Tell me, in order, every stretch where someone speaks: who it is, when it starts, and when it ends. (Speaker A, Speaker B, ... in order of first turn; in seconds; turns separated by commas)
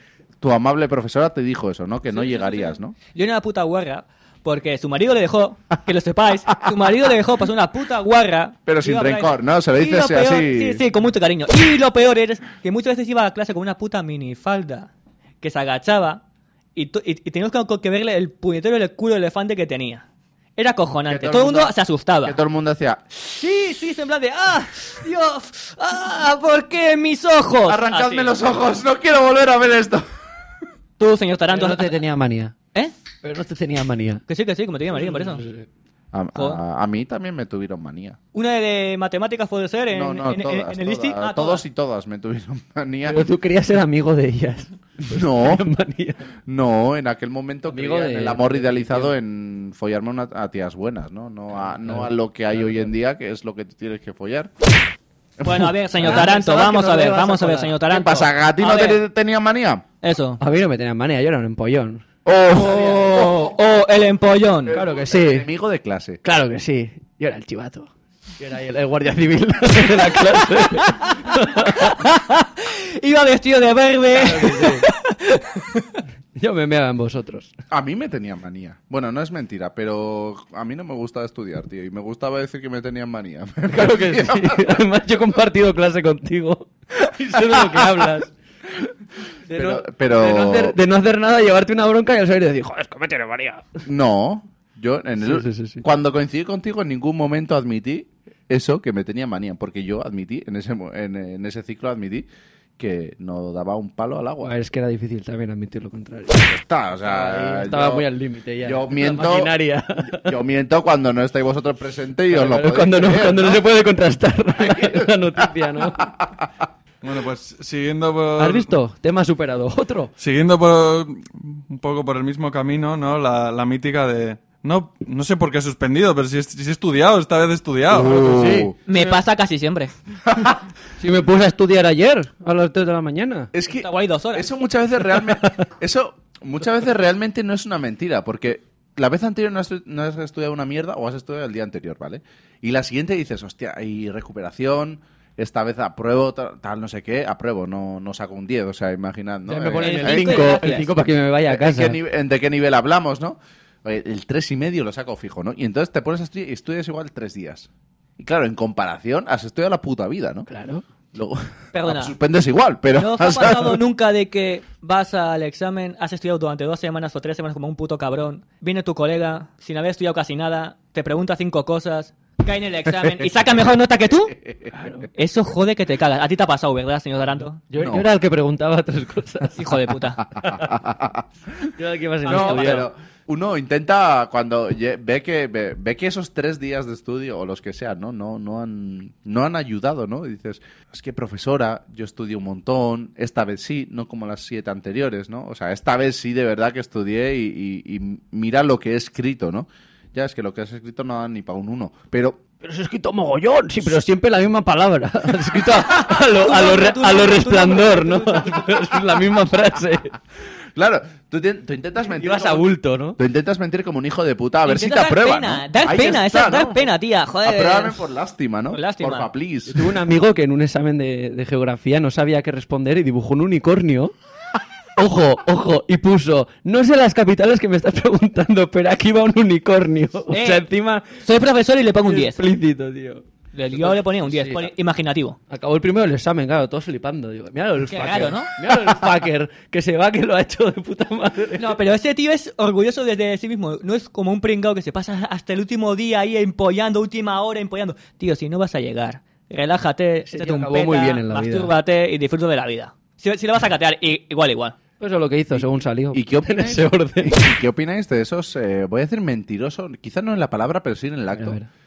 Speaker A: 0.4-3.0, Speaker B: 2.1-14.9, Speaker A: 8.7-10.8, Speaker B: 15.4-16.2, Speaker B: 16.8-20.0, Speaker B: 20.6-22.4, Speaker A: 21.1-23.0, Speaker B: 23.2-28.4, Speaker A: 27.6-30.0, Speaker B: 31.0-31.9, Speaker C: 31.5-32.5, Speaker C: 33.2-34.2, Speaker B: 34.3-35.4, Speaker C: 34.9-35.7, Speaker A: 36.1-38.2, Speaker B: 38.3-41.6, Speaker A: 39.9-43.3, Speaker C: 43.0-46.3, Speaker A: 45.1-45.6, Speaker A: 46.5-54.5, Speaker C: 47.7-49.1, Speaker C: 51.6-52.9, Speaker A: 55.4-56.3, Speaker B: 55.4-59.0, Speaker C: 56.0-57.8, Speaker A: 57.9-59.8, Speaker B: 60.0-60.4, Speaker C: 60.4-62.0, Speaker A: 62.2-63.5, Speaker C: 62.5-63.2, Speaker B: 62.6-64.8, Speaker A: 64.7-66.2, Speaker C: 64.7-65.5, Speaker C: 66.2-71.9, Speaker B: 71.8-76.0, Speaker C: 74.1-74.8, Speaker C: 76.3-77.5, Speaker A: 77.7-84.7, Speaker C: 83.7-88.3, Speaker A: 87.5-88.0, Speaker C: 89.5-93.8, Speaker A: 89.5-90.8, Speaker A: 93.8-102.3, Speaker C: 95.2-95.8, Speaker A: 102.8-104.5, Speaker C: 104.4-106.4, Speaker A: 106.3-108.1, Speaker C: 107.0-110.3, Speaker A: 108.6-109.6, Speaker A: 110.1-113.6, Speaker C: 112.3-116.1, Speaker A: 114.5-116.5, Speaker D: 117.0-118.7, Speaker C: 118.4-120.1, Speaker D: 120.2-128.4, Speaker A: 127.9-128.7, Speaker C: 128.2-128.7, Speaker B: 128.9-129.9, Speaker C: 131.0-133.5, Speaker A: 133.5-150.8, Speaker B: 133.7-134.5, Speaker C: 149.5-152.0, Speaker B: 149.8-150.9, Speaker A: 151.4-160.5, Speaker C: 160.5-160.8, Speaker A: 161.1-163.8, Speaker B: 161.7-162.1, Speaker B: 162.9-174.3, Speaker A: 173.0-173.8, Speaker A: 174.3-174.7, Speaker C: 174.8-175.1, Speaker B: 175.1-177.6, Speaker C: 177.7-179.8, Speaker A: 177.8-178.1, Speaker B: 179.6-180.2, Speaker C: 180.4-180.7, Speaker A: 180.4-181.2, Speaker C: 181.8-182.9, Speaker B: 182.2-182.9, Speaker A: 182.2-202.4, Speaker C: 202.6-210.1, Speaker B: 205.9-208.8, Speaker A: 210.7-216.9, Speaker C: 212.1-213.2, Speaker B: 214.6-218.0, Speaker A: 217.4-220.0, Speaker B: 218.7-219.3, Speaker C: 219.7-224.1, Speaker C: 225.0-231.1, Speaker B: 230.3-232.4, Speaker C: 232.0-233.2, Speaker B: 233.5-235.4, Speaker C: 233.8-234.7, Speaker C: 235.5-241.8, Speaker B: 237.8-238.5, Speaker B: 241.6-254.7, Speaker C: 250.3-251.7, Speaker C: 255.0-257.4, Speaker A: 255.5-261.6, Speaker C: 261.3-261.7